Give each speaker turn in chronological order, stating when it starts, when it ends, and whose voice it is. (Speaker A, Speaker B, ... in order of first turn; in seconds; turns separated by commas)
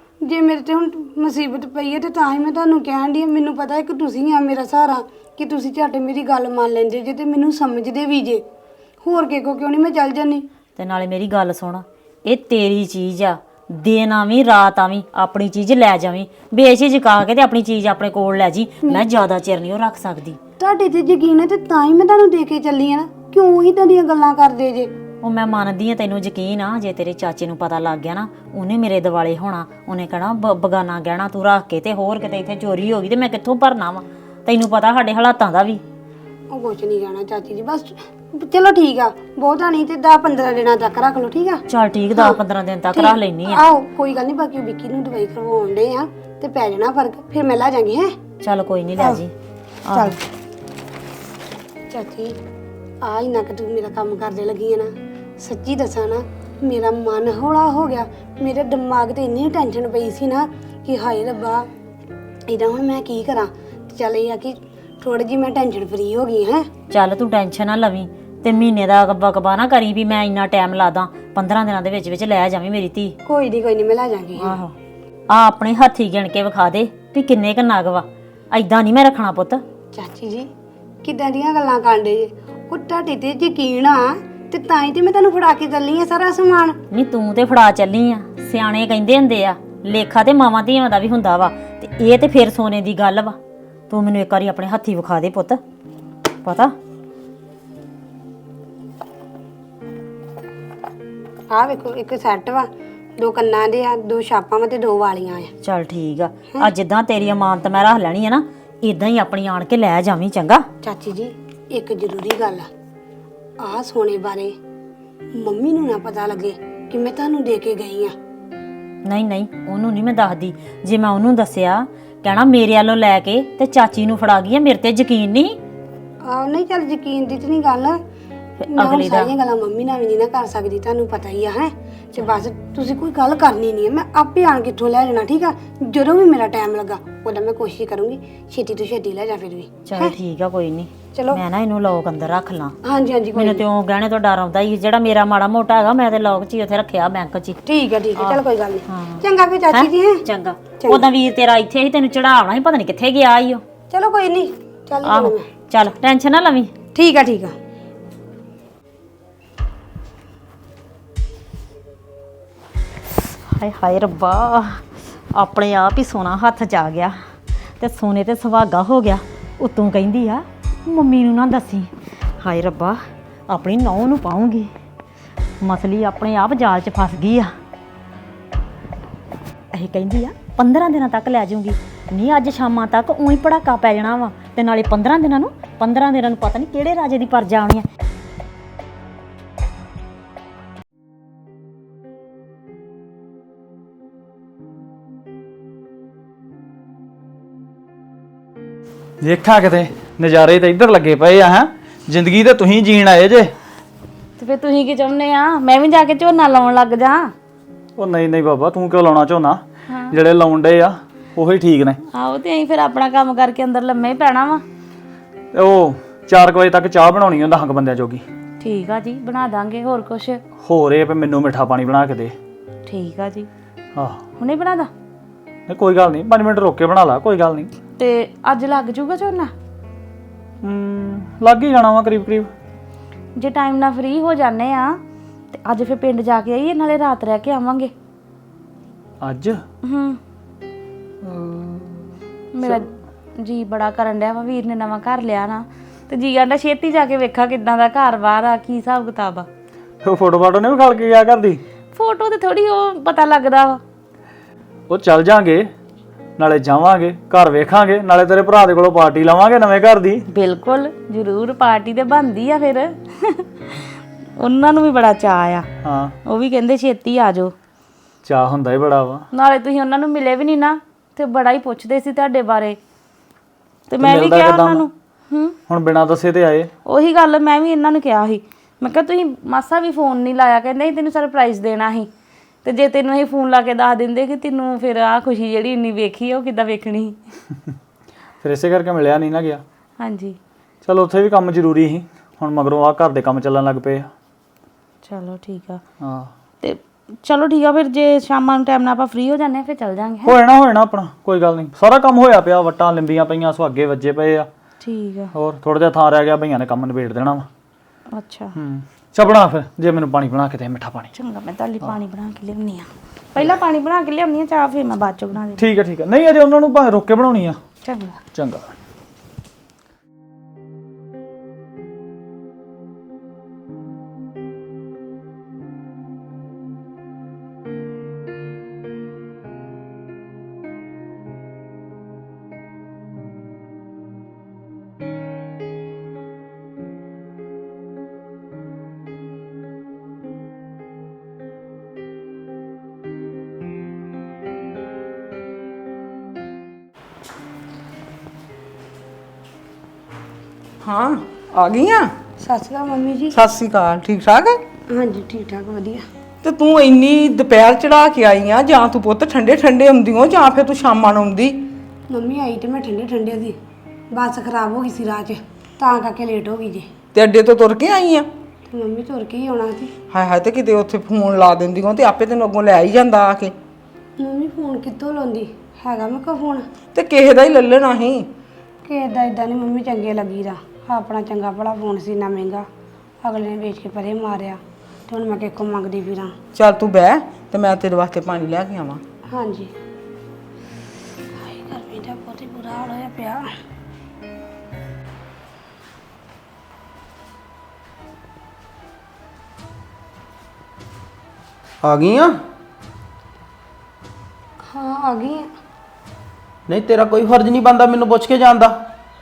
Speaker A: 0.2-8.4, Speaker A: 9.0-10.4, Speaker B: 10.8-20.4, Speaker A: 20.6-24.9, Speaker B: 25.2-35.8, Speaker A: 36.5-41.6, Speaker B: 41.7-43.6, Speaker A: 42.9-48.1, Speaker B: 48.4-49.3, Speaker B: 49.9-50.2, Speaker A: 49.9-50.2, Speaker A: 51.9-52.4, Speaker A: 53.0-61.7, Speaker A: 62.5-66.7, Speaker B: 66.9-73.2, Speaker A: 73.2-74.5, Speaker B: 74.4-74.7, Speaker B: 75.3-79.6, Speaker A: 79.9-80.5, Speaker A: 81.0-86.8, Speaker B: 86.9-93.4, Speaker B: 93.9-95.6, Speaker B: 96.4-96.7, Speaker A: 101.5-105.5, Speaker B: 105.6-110.7, Speaker A: 110.8-112.7, Speaker A: 113.6-114.6, Speaker A: 115.3-118.1, Speaker B: 119.0-125.6, Speaker A: 126.2-128.0, Speaker B: 128.6-129.3, Speaker A: 128.7-140.1, Speaker B: 139.9-142.8, Speaker A: 141.1-141.4, Speaker A: 142.8-143.6, Speaker B: 143.3-147.6, Speaker A: 147.7-150.2, Speaker B: 148.2-153.6, Speaker A: 153.9-155.5, Speaker B: 155.0-156.7, Speaker A: 156.9-157.5, Speaker B: 163.2-167.2, Speaker B: 167.8-174.7, Speaker B: 175.6-177.5, Speaker B: 179.7-187.8, Speaker C: 199.2-203.5, Speaker D: 204.4-207.3, Speaker C: 208.0-212.0, Speaker D: 209.9-210.2, Speaker D: 212.1-214.6, Speaker C: 215.5-218.2, Speaker D: 218.6-220.4, Speaker C: 220.6-222.3, Speaker D: 222.8-223.5, Speaker C: 223.9-224.2, Speaker D: 224.4-224.9, Speaker C: 225.7-227.7, Speaker D: 228.0-229.5, Speaker C: 230.6-232.5, Speaker D: 233.3-235.0, Speaker D: 235.5-237.9, Speaker C: 239.2-239.6, Speaker D: 239.8-240.2, Speaker C: 241.2-242.0, Speaker D: 242.5-242.9, Speaker D: 243.4-249.5, Speaker C: 250.0-251.6, Speaker D: 251.9-253.8, Speaker C: 254.9-255.7, Speaker C: 256.4-260.2, Speaker D: 260.3-263.8, Speaker D: 264.4-265.7, Speaker C: 265.8-266.1, Speaker D: 266.2-267.5, Speaker C: 268.2-269.2, Speaker D: 269.3-272.8, Speaker D: 273.9-275.6, Speaker C: 274.0-274.9, Speaker C: 275.7-276.7, Speaker D: 276.9-282.1, Speaker D: 282.6-287.2, Speaker C: 288.4-289.6, Speaker D: 290.0-290.4, Speaker C: 290.8-294.1, Speaker D: 295.0-295.8, Speaker C: 296.0-296.3, Speaker D: 296.6-300.4, Speaker C: 300.2-304.5, Speaker D: 304.8-305.3, Speaker C: 305.3-307.5, Speaker D: 308.1-308.5, Speaker C: 308.6-311.1, Speaker D: 311.1-315.6, Speaker C: 315.6-317.6, Speaker D: 317.8-318.2, Speaker C: 318.3-318.7, Speaker E: 350.8-352.1, Speaker A: 352.4-353.4, Speaker E: 353.3-354.6, Speaker A: 354.9-356.1, Speaker E: 356.4-361.6, Speaker A: 362.1-363.6, Speaker A: 364.1-366.9, Speaker E: 367.1-368.3, Speaker A: 368.7-369.9, Speaker E: 370.1-373.5, Speaker A: 374.2-376.7, Speaker E: 376.9-378.3, Speaker A: 378.8-382.7, Speaker A: 383.2-386.4, Speaker E: 386.5-389.0, Speaker A: 389.3-389.7, Speaker A: 391.3-393.5, Speaker F: 401.8-402.4, Speaker A: 404.6-405.5, Speaker F: 406.7-408.8